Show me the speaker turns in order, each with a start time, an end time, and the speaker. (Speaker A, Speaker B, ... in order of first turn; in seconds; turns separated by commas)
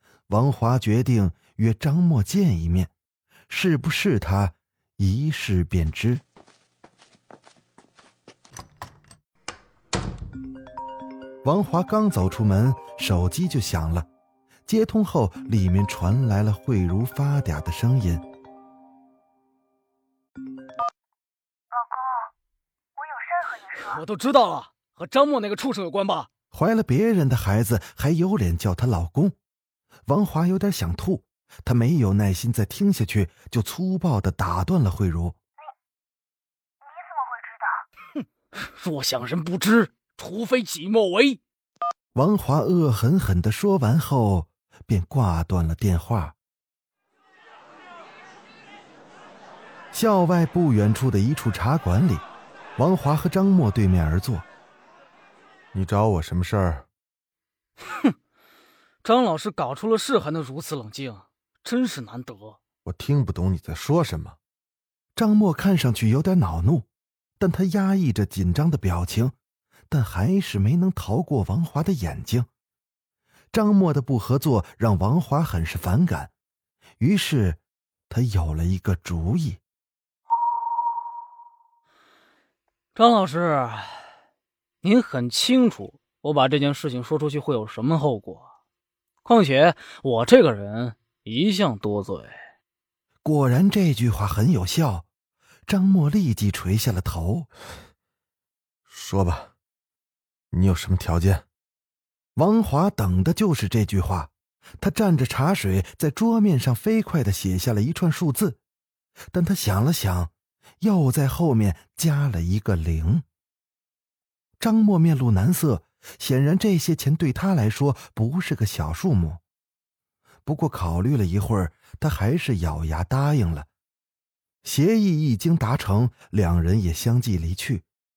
Speaker A: 0.3-2.9, Speaker A: 3.5-6.2, Speaker A: 11.4-14.1, Speaker A: 14.7-18.2, Speaker B: 21.7-22.3, Speaker B: 23.0-24.0, Speaker C: 23.8-26.3, Speaker A: 26.5-29.4, Speaker A: 30.1-35.4, Speaker B: 36.8-37.9, Speaker C: 38.2-41.4, Speaker A: 42.1-46.4, Speaker A: 49.9-52.2, Speaker A: 52.8-54.5, Speaker A: 55.7-56.9, Speaker C: 57.8-58.1, Speaker C: 59.0-62.6, Speaker A: 62.9-64.4, Speaker A: 65.2-66.9, Speaker A: 67.4-69.3, Speaker A: 69.9-72.5, Speaker A: 73.5-76.3, Speaker A: 77.0-79.6, Speaker C: 83.0-84.0, Speaker C: 84.8-88.5, Speaker C: 89.2-92.4, Speaker A: 93.2-95.1, Speaker A: 95.7-97.5, Speaker A: 98.9-99.5, Speaker A: 100.5-101.5, Speaker A: 102.4-108.6, Speaker A: 109.3-113.3, Speaker A: 114.6-119.4, Speaker A: 120.5-123.7, Speaker A: 124.6-127.9